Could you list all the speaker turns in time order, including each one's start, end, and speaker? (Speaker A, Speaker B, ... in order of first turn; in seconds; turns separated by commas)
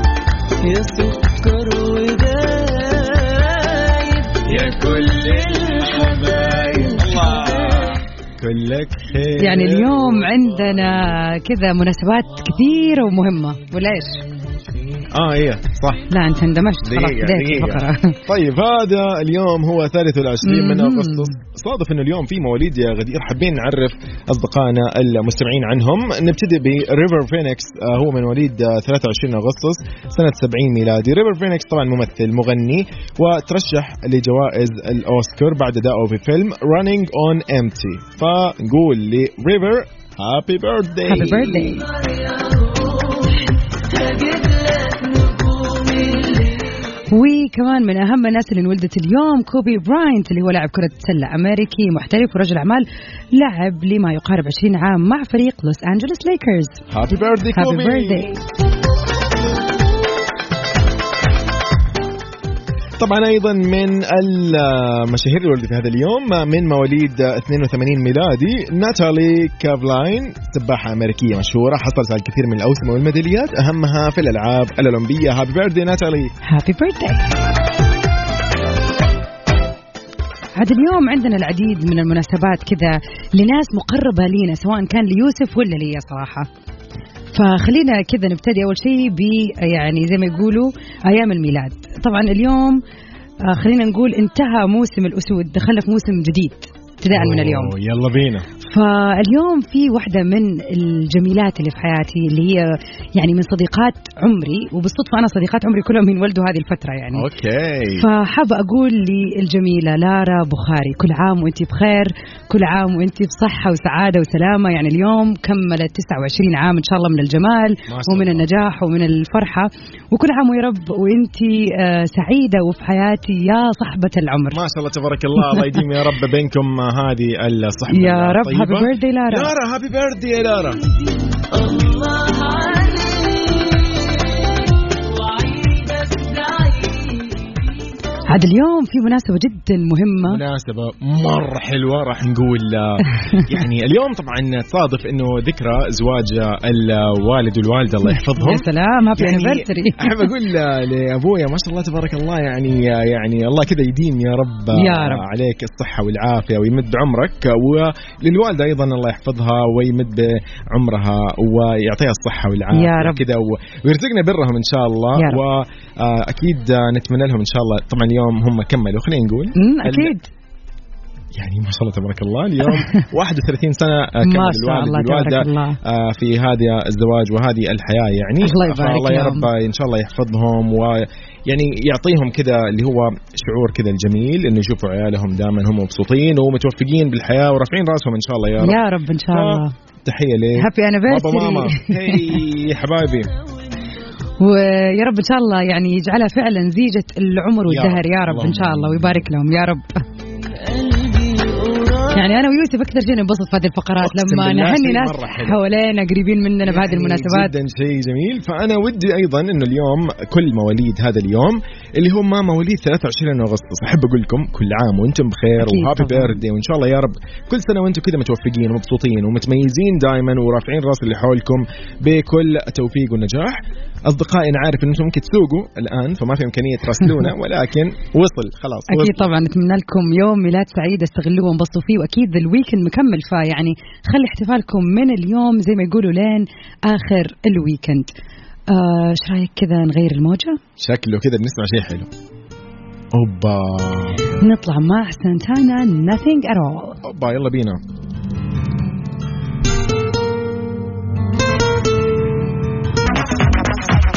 Speaker A: 0.6-8.0, Speaker B: 4.5-11.2, Speaker C: 9.4-14.2, Speaker B: 15.1-16.1, Speaker C: 16.1-18.2, Speaker B: 16.8-41.6, Speaker C: 20.4-21.4, Speaker C: 41.0-41.9, Speaker A: 41.4-47.0, Speaker C: 47.1-56.8, Speaker B: 56.9-58.4, Speaker C: 57.5-58.4, Speaker B: 63.0-76.3, Speaker C: 76.4-77.4, Speaker C: 80.5-86.5, Speaker C: 87.3-92.8, Speaker C: 93.4-97.7, Speaker B: 97.1-98.5, Speaker C: 98.6-107.3, Speaker B: 107.1-108.1, Speaker C: 108.0-124.6, Speaker B: 117.9-118.5, Speaker B: 124.5-130.8, Speaker C: 127.9-129.5, Speaker A: 131.3-138.2, Speaker C: 138.3-140.4, Speaker B: 140.3-170.1, Speaker C: 148.1-150.3, Speaker C: 154.7-155.3, Speaker C: 162.7-163.2, Speaker C: 165.2-165.4, Speaker C: 169.6-170.3, Speaker B: 171.4-188.8, Speaker C: 172.7-173.0, Speaker C: 174.2-175.8, Speaker C: 178.4-179.5, Speaker C: 188.6-189.7, Speaker B: 189.3-193.3, Speaker C: 190.6-192.4, Speaker C: 194.4-199.9, Speaker B: 197.7-199.3, Speaker A: 200.2-202.3, Speaker C: 202.1-207.5, Speaker B: 204.0-205.6, Speaker B: 206.6-229.3, Speaker C: 215.6-216.4, Speaker C: 228.9-238.1, Speaker C: 238.7-240.6, Speaker B: 240.8-242.1, Speaker B: 243.1-244.3, Speaker C: 244.4-247.0, Speaker B: 247.0-247.8